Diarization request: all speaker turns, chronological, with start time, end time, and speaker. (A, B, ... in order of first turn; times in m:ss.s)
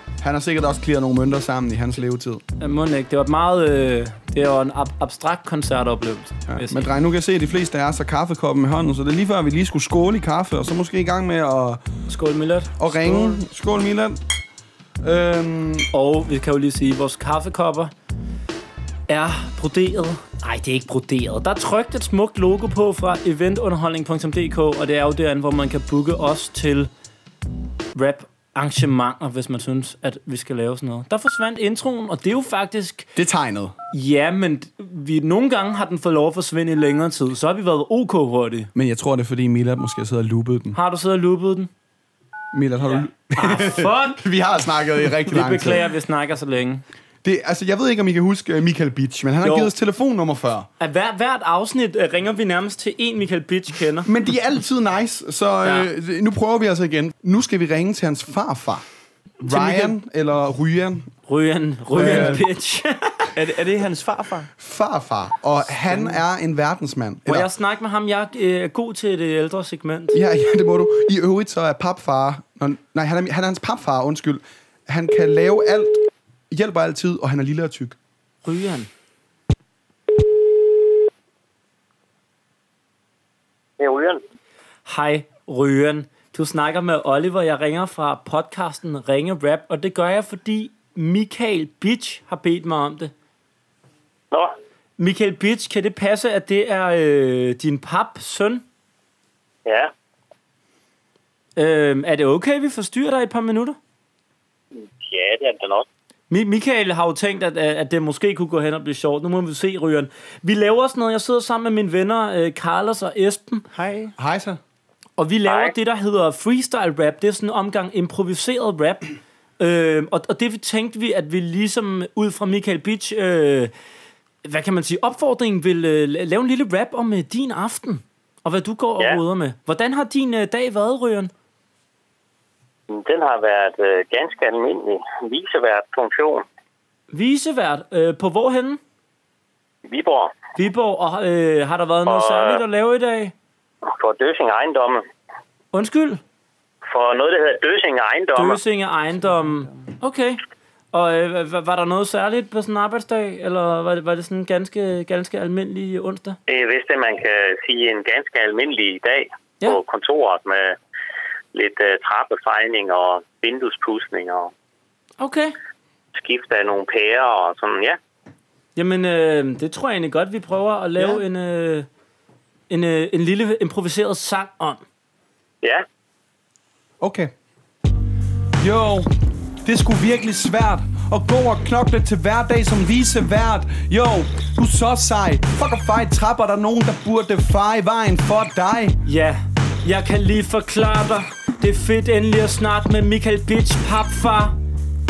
0:00.2-0:02.4 A
0:02.6-0:06.9 B
0:06.5-0:11.8 A
0:12.1-0:13.4 B
0:12.8-0:14.2 A
0:15.0-0:15.9 A
0:15.9-0:17.9 B
0:19.1-0:26.9 B
0:28.0-0:33.1 B
0:33.2-0:33.8 A
0:33.9-0:38.7 B
0:38.8-0:40.8 A
0:40.8-0:41.7 B
0:42.5-0:45.9 A
0:43.4-0:44.2 B
0:45.2-0:46.8 B
0:47.2-0:50.7 A
0:49.4-0:49.7 B
0:50.8-0:54.1 B
0:54.1-0:58.8 A
0:59.4-0:59.9 C
0:59.4-1:01.1 A
1:01.3-1:03.3 B
1:01.9-1:02.4 A
1:02.0-1:02.4 C
1:03.4-1:04.5 C
1:04.6-1:07.5 A
1:07.3-1:10.2 B
1:10.1-1:16.0 A
1:16.5-1:18.0 A
1:18.4-1:18.9 B
1:23.8-1:24.2 D
1:24.9-1:33.1 B
1:35.0-1:38.6 B
1:39.7-1:39.9 D
1:41.6-1:43.8 B
1:44.8-1:45.8 D
1:46.3-1:53.7 B
1:53.7-1:54.1 C
1:54.2-1:54.6 A
1:55.2-2:03.7 B
1:55.5-1:55.7 D
2:04.4-2:11.3 B
2:12.9-2:16.4 D
2:17.1-2:18.8 B
2:19.9-2:20.4 D
2:20.6-2:23.3 B
2:22.1-2:22.6 D
2:23.9-2:25.0 D
2:25.7-2:26.2 B
2:26.9-2:28.6 D
2:28.4-2:30.4 B
2:30.9-2:36.4 B
2:36.5-2:40.8 D
2:41.5-2:44.5 D
2:45.2-2:45.6 B
2:46.2-2:48.0 D
2:48.8-2:51.9 B
2:52.7-2:54.8 B
2:57.0-2:57.3 A
2:58.6-2:59.1 A
2:59.6-3:09.0 A
3:09.1-3:14.6 B